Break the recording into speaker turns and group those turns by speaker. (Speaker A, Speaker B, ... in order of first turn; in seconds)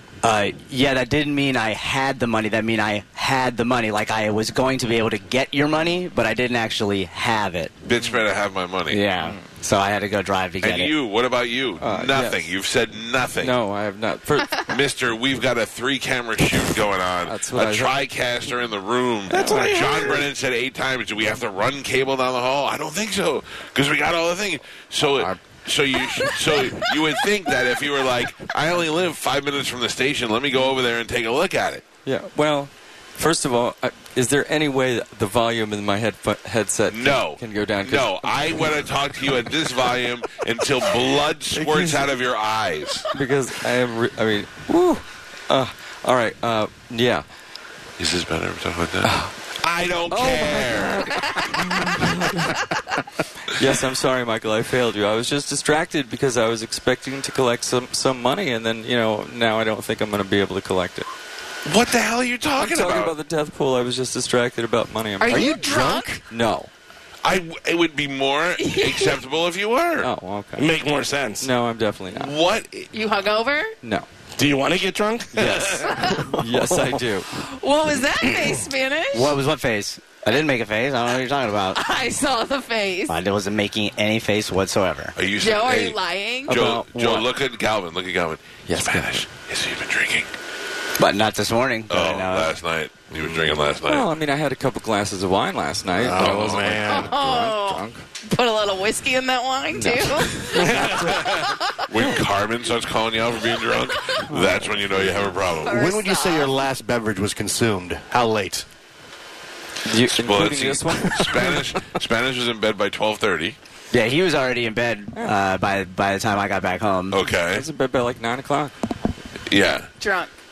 Speaker A: 0.2-7.7, 8.9-10.9, 75.3-76.7, 79.1-81.8, 83.1-85.2, 91.0-92.5, 113.9-117.2
Speaker B: 7.8-9.0, 10.6-13.6, 14.6-31.9, 36.9-43.1, 48.0-52.1, 61.6-63.2, 67.2-70.1, 72.1-72.9, 85.2-90.3, 91.9-94.1, 96.0-97.1, 101.9-105.9, 110.1-113.6, 117.1-117.7, 119.5-119.9
Speaker C: 8.0-8.3, 9.2-9.5, 11.8-12.5, 13.4-14.7, 17.2-18.0, 19.3-20.3, 25.1-25.4, 32.0-38.7, 41.5-42.1, 43.1-47.2, 49.0-49.3, 50.1-52.7, 53.5-61.1, 62.6-65.5, 66.3-66.7, 70.0-70.7, 71.4-72.4, 73.8-74.1, 76.4-77.3, 86.5-87.3, 88.7-89.2, 93.8-98.0, 99.7-100.5, 104.3-105.2, 109.9-111.8, 117.5-118.7
Speaker D: 65.2-66.2, 68.6-69.2, 72.9-73.8, 76.0-76.3, 77.5-79.3, 81.8-83.2, 85.4-86.6, 96.9-101.9, 105.5-106.6, 120.0-120.3
Speaker E: 65.3-66.2, 96.0-97.1, 105.7-108.7
Speaker F: 70.6-71.5, 74.4-76.1, 100.5-101.5